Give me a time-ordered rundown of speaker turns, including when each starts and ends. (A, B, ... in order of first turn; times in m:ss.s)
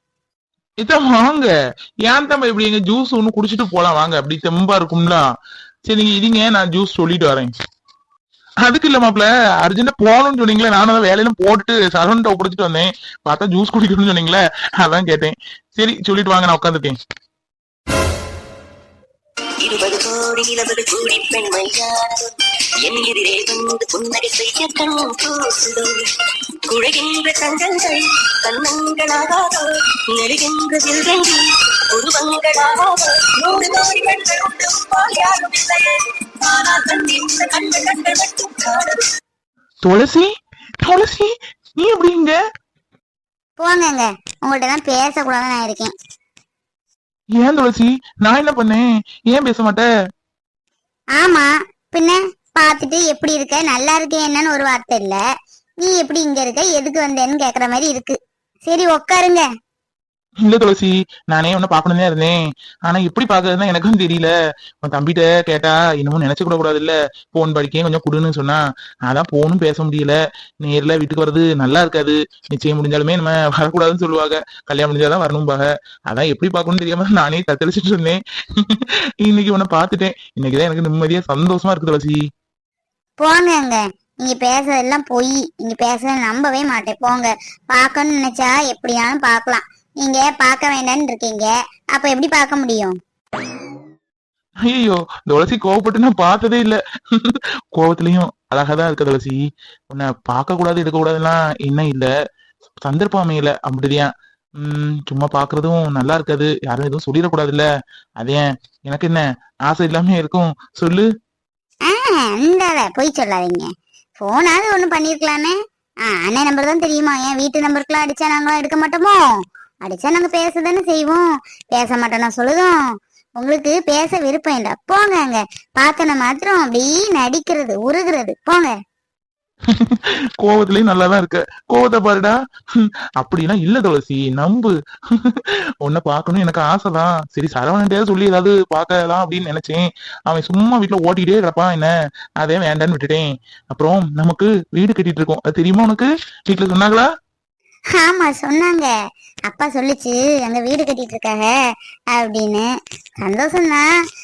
0:00.8-0:01.5 A
0:02.0-0:05.2 A
0:05.9-0:07.5 A
0:08.6-0:17.0 A
0:19.6-0:26.1 B
0:26.7-0:39.1 B
0:39.8-0:40.3 A
0:40.8-0:42.4 A
0:43.6-0:45.9 C
0:47.4-0:49.9 A
0:51.2-0:55.2 C
0:55.8-0:59.4 C
1:00.4-1:04.3 A
1:04.8-1:22.2 A
1:23.2-1:32.9 C
1:34.6-1:42.1 A
1:42.8-1:47.6 A
1:48.2-1:51.1 A
1:51.9-1:53.7 C
1:54.2-1:55.6 C
1:56.1-1:59.2 C
1:59.8-2:01.2 C
2:01.7-2:02.8 C
2:03.4-2:08.7 C
2:09.7-2:27.1 A
2:28.0-2:28.9 C
2:29.5-2:31.5 C
2:32.1-2:32.7 C
2:33.2-2:33.8 C